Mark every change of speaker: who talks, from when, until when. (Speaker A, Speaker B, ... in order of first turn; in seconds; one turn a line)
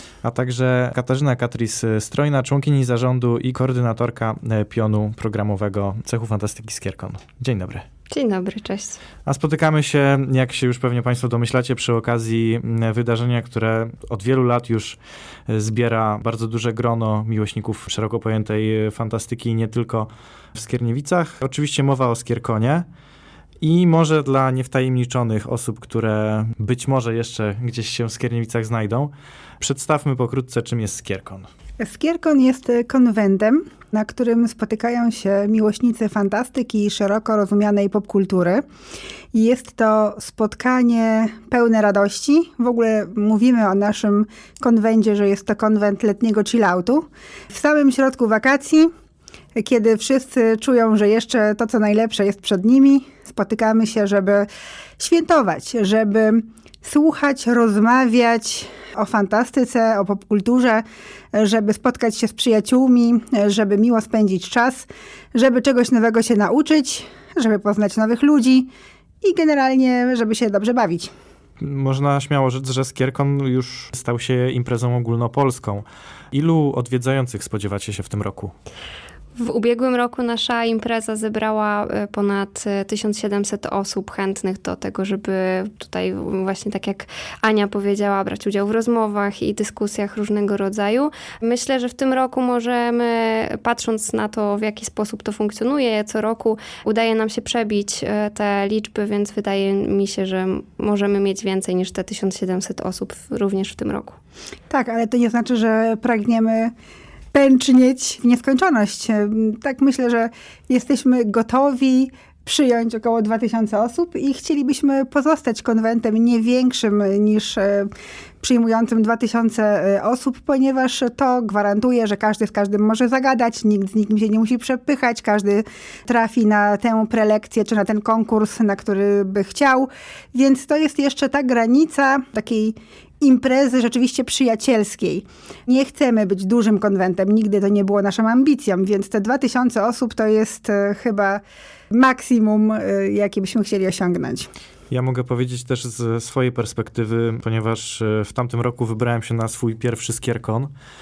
Speaker A: 0.2-7.8
Speaker B: 8.1-9.0
Speaker A: 9.3-22.9
Speaker A: 23.6-31.5
Speaker C: 31.8-38.6
Speaker C: 39.3-48.9
Speaker C: 49.6-54.5
Speaker C: 55.0-68.7
Speaker C: 69.2-71.1
Speaker A: 71.6-78.5
Speaker B: 79.4-104.2
Speaker C: 104.7-106.7
Speaker C: 107.3-117.9
Speaker C: 118.4-141.4
Speaker C: 141.9-144.5
Speaker A: 144.9-150.7